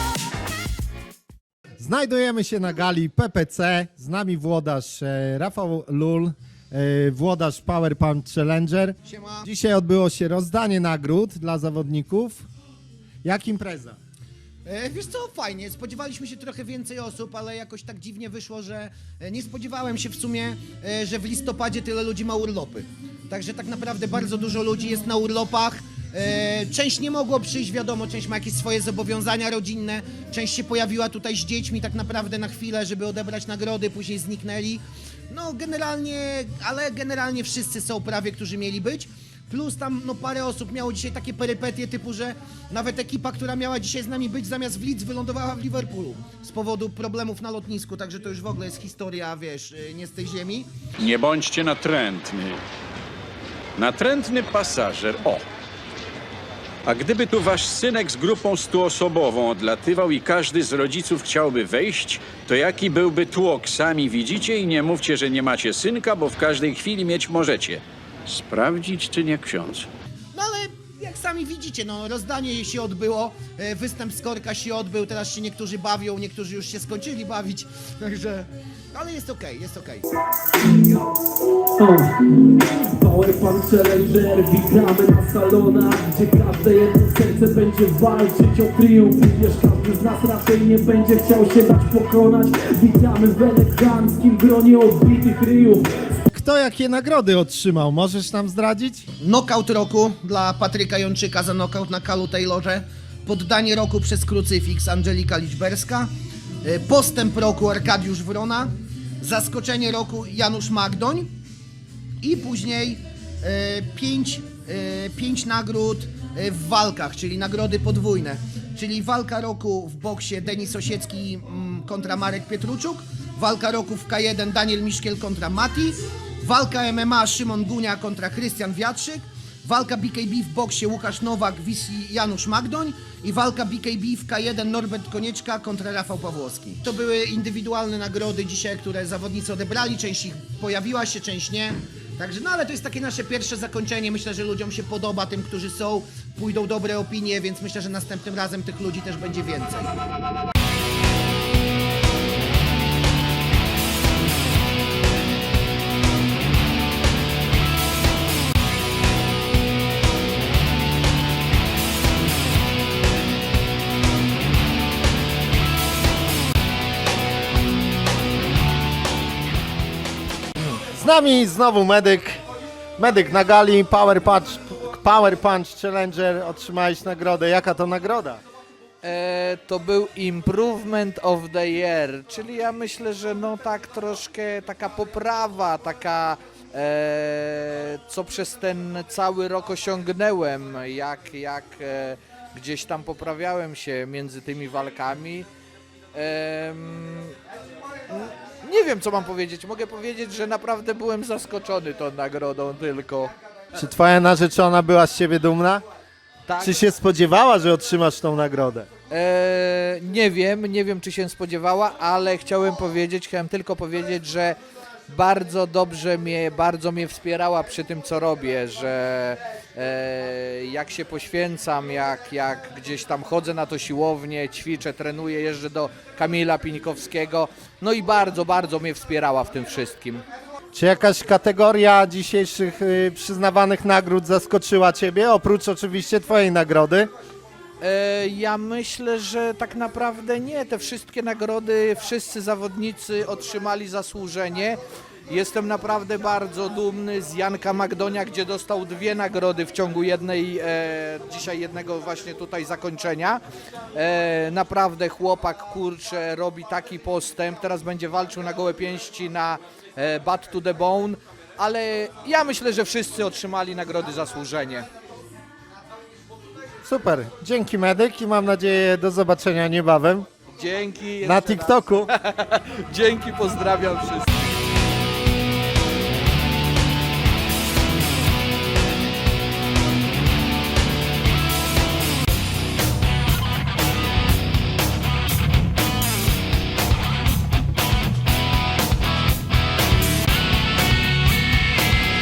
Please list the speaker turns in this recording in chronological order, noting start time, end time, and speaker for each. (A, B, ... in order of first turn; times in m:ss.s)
0:01.8-0:12.5 A
0:09.1-0:09.5 B
0:13.2-0:14.0 A
0:14.6-0:50.7 B
0:51.0-0:52.6 C
0:53.8-0:55.4 C
0:56.9-1:09.9 C
1:10.3-1:20.0 B
1:21.8-1:36.0 D
1:36.3-1:39.1 A
1:39.2-1:46.1 B
1:46.6-1:51.3 B
1:52.2-2:30.0 B
2:50.9-2:52.4 A
2:53.0-2:58.4 A
2:59.0-3:15.5 E
3:16.1-3:17.4 E
3:18.1-3:23.3 E
3:23.7-3:25.8 A
3:26.5-3:26.8 E
3:26.6-3:28.9 A
3:29.1-3:34.6 E
3:35.1-3:50.2 E
3:50.7-3:57.1 A
3:57.8-4:04.8 E
4:05.3-4:13.4 E
4:13.9-4:24.9 E
4:26.8-4:30.3 A
4:30.5-4:34.5 E
4:31.2-4:32.1 A